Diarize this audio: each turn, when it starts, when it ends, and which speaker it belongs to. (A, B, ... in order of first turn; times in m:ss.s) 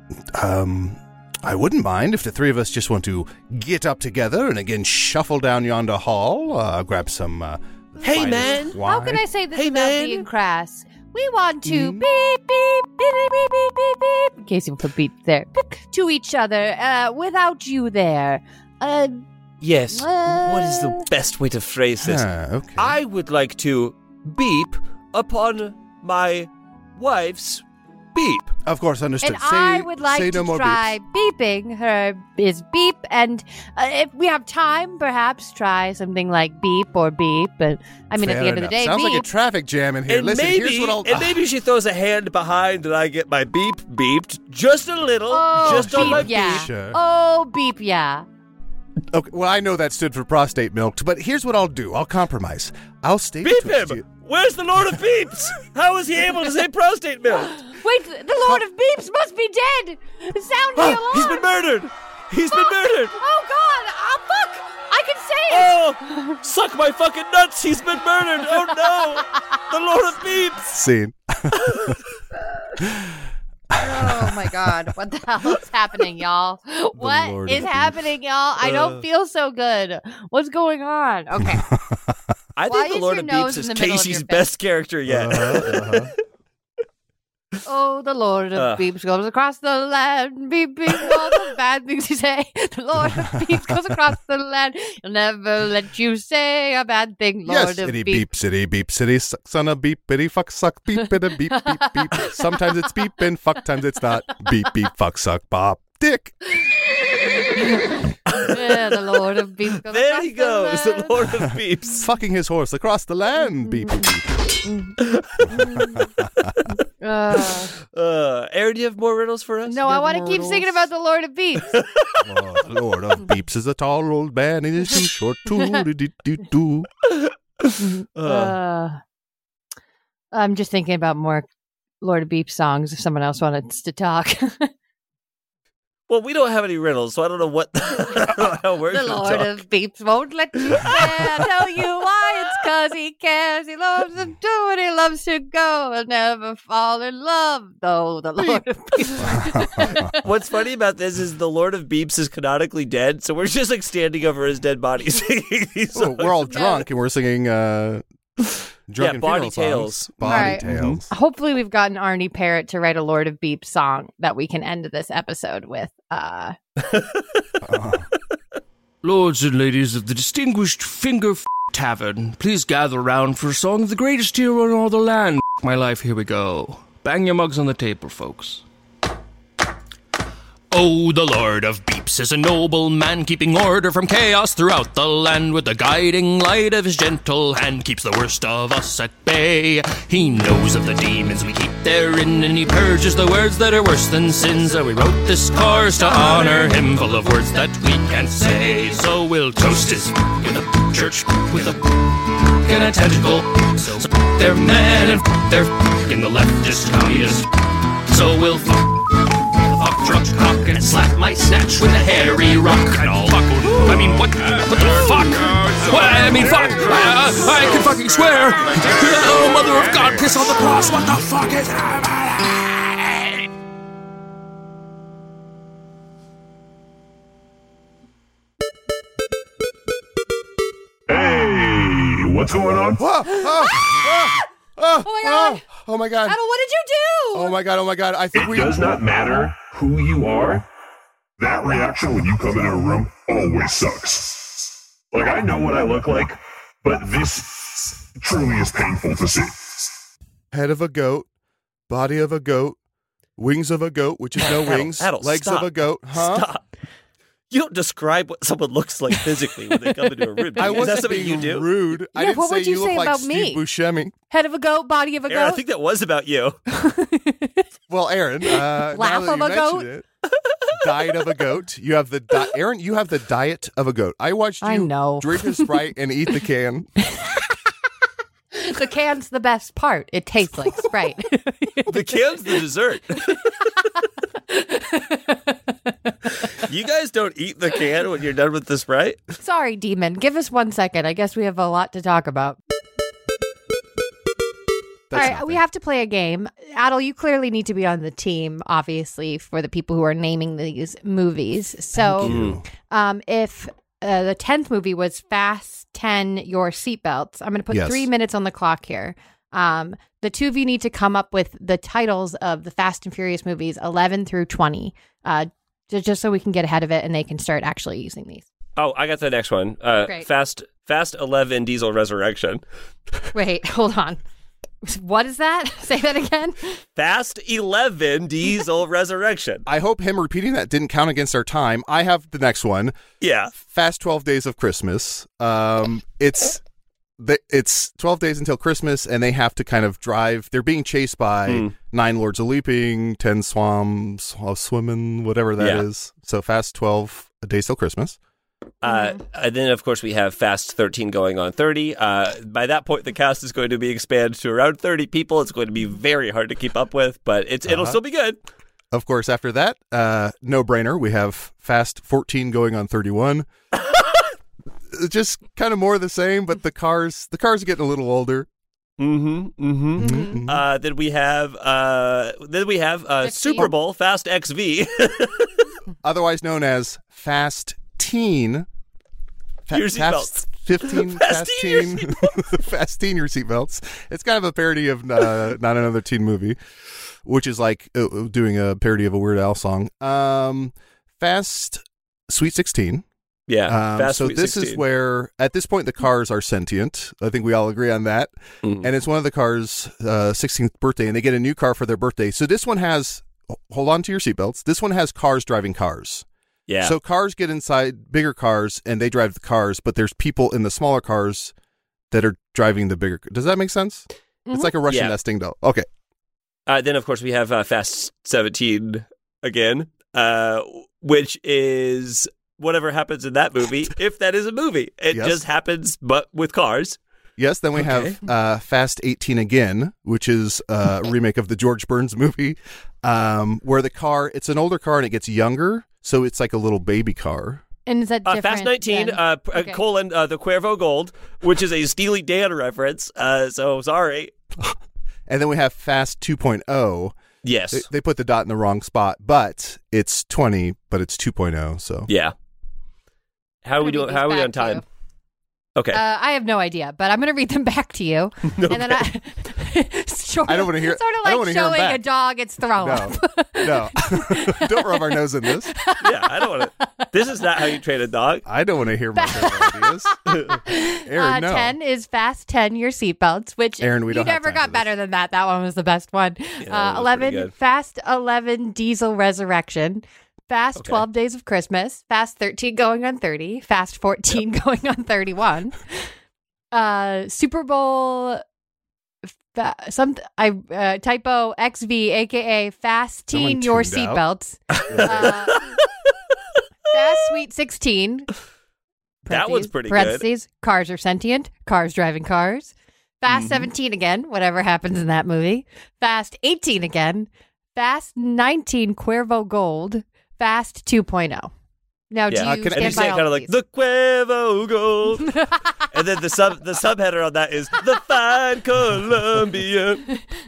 0:00.3-0:09.2 A
0:08.0-0:08.8 B
0:08.1-0:19.2 C
0:09.5-0:10.2 B
0:11.6-0:12.1 A
0:19.6-0:22.2 B
0:19.9-0:21.1 C
0:22.0-0:23.0 A
0:22.8-0:28.5 B
0:28.6-0:30.9 A
0:29.2-0:39.2 C
0:38.1-0:41.4 A
0:40.1-0:46.6 B
0:45.3-0:48.2 C
0:45.6-0:47.0 A
0:49.1-0:54.0 A
0:53.4-0:57.6 B
0:57.6-1:01.5 C
1:00.8-1:03.2 B
1:03.2-1:06.4 C
1:05.5-1:10.8 B
1:09.3-1:09.6 C
1:10.7-1:12.0 A
1:11.5-1:12.0 B
1:12.8-1:14.7 A
1:13.7-1:21.6 C
1:17.0-1:18.0 A
1:18.6-1:19.0 B
1:21.4-1:22.2 A
1:22.6-1:26.1 B
1:22.6-1:24.5 C
1:25.1-1:26.1 A
1:27.6-1:38.2 C
1:28.6-1:28.8 B
1:33.0-1:33.8 A
1:37.4-1:46.4 A
1:41.0-1:42.9 C
1:47.4-1:51.1 C
1:48.3-1:49.0 B
1:49.8-1:52.1 B
1:51.9-1:54.4 A
1:53.7-1:54.1 C
1:54.6-1:54.9 C
1:55.4-1:56.6 A
1:55.5-1:56.1 C
1:57.0-1:57.7 C
1:57.8-2:00.8 B
1:59.6-2:01.7 C
2:01.6-2:02.2 B
2:02.2-2:06.9 A
2:07.1-2:08.6 B
2:07.8-2:09.0 C
2:10.3-2:11.4 C
2:12.0-2:14.7 C
2:16.1-2:19.6 B
2:18.9-2:30.2 C
2:20.6-2:21.7 B
2:29.2-2:30.1 A
2:30.2-2:36.3 B
2:35.9-2:38.0 A
2:36.5-2:36.8 C
2:38.9-2:41.1 A
2:39.0-2:41.0 B
2:40.2-2:46.6 C
2:46.9-2:47.2 B
2:47.6-2:48.1 A
2:49.0-2:58.6 D
3:00.7-3:43.4 D
3:33.7-3:37.2 E
3:38.7-3:39.2 E
3:51.1-3:53.0 E
3:53.0-3:56.4 A
3:53.4-3:54.3 C
3:55.0-3:55.6 C
3:56.2-3:57.6 C
3:57.3-3:59.0 A
3:58.3-4:00.6 E
4:01.4-4:10.0 E
4:10.5-4:11.3 A
4:11.9-4:12.8 A
4:13.4-4:16.4 A
4:14.4-4:16.6 B
4:17.5-4:21.7 B
4:20.5-4:20.9 C
4:20.6-4:24.1 A
4:22.1-4:23.6 C
4:24.3-4:25.6 C
4:25.3-4:26.6 B
4:26.7-4:27.6 C
4:27.9-4:30.0 A
4:28.5-4:29.9 C
4:30.7-4:36.9 A
4:34.6-4:35.7 C
4:38.5-4:42.1 C
4:41.9-4:43.4 B
4:44.5-4:45.6 C
4:46.6-4:49.2 B
4:49.4-4:52.6 C
4:55.1-4:55.6 A
4:55.1-5:02.3 C
5:01.9-5:02.6 A
5:02.2-5:02.6 B
5:02.9-5:18.4 C
5:07.7-5:08.1 A
5:18.8-5:22.6 B
5:23.3-5:24.2 C
5:24.8-5:26.8 C
5:27.0-5:29.6 B
5:29.6-5:32.9 A
5:33.2-5:33.5 B
5:33.6-5:36.6 A
5:37.2-5:48.2 A
5:41.5-5:41.7 B
5:45.6-5:45.9 B
5:48.8-5:58.4 B
5:48.9-5:49.2 C
5:57.6-5:58.0 A
5:58.9-6:03.5 A
6:04.9-6:08.5 A
6:09.0-6:15.7 B
6:10.0-6:10.6 A
6:10.0-6:10.4 C
6:13.2-6:13.7 C
6:16.0-6:18.7 A
6:19.7-6:26.6 A
6:19.7-6:22.4 B
6:27.2-6:33.0 A
6:33.5-6:34.8 B
6:33.7-6:46.2 A
6:46.7-6:46.9 B
6:46.8-6:51.5 A
6:52.1-6:55.9 A
6:54.5-6:54.7 C
6:54.9-6:55.2 B
6:56.7-7:07.0 B
7:05.1-7:05.4 A
7:07.4-7:17.6 A
7:07.8-7:08.2 B
7:17.9-7:19.8 C
7:18.2-7:24.3 B
7:24.6-7:27.2 A
7:27.4-7:27.9 B
7:27.7-7:32.1 A
7:32.1-7:32.3 B
7:33.6-7:34.8 B
7:33.8-7:34.8 C
7:35.9-7:47.1 C
7:38.5-7:39.0 B
7:40.4-7:42.0 A
7:42.8-7:45.7 A
7:46.0-7:48.4 B
7:48.4-7:50.1 A
7:49.1-8:06.1 C
7:50.3-7:50.6 B
7:51.1-7:51.8 A
7:53.8-7:54.9 A
7:56.6-7:57.5 B
8:00.8-8:01.0 B
8:06.7-8:08.4 C
8:09.4-8:15.6 C
8:13.3-8:14.2 A
8:14.7-8:15.8 B
8:14.9-8:15.4 A
8:16.9-8:18.3 C
8:19.2-8:31.5 C
8:19.3-8:20.2 B
8:23.3-8:23.7 B
8:32.1-8:33.6 C
8:32.3-8:40.1 B
8:32.4-8:33.1 A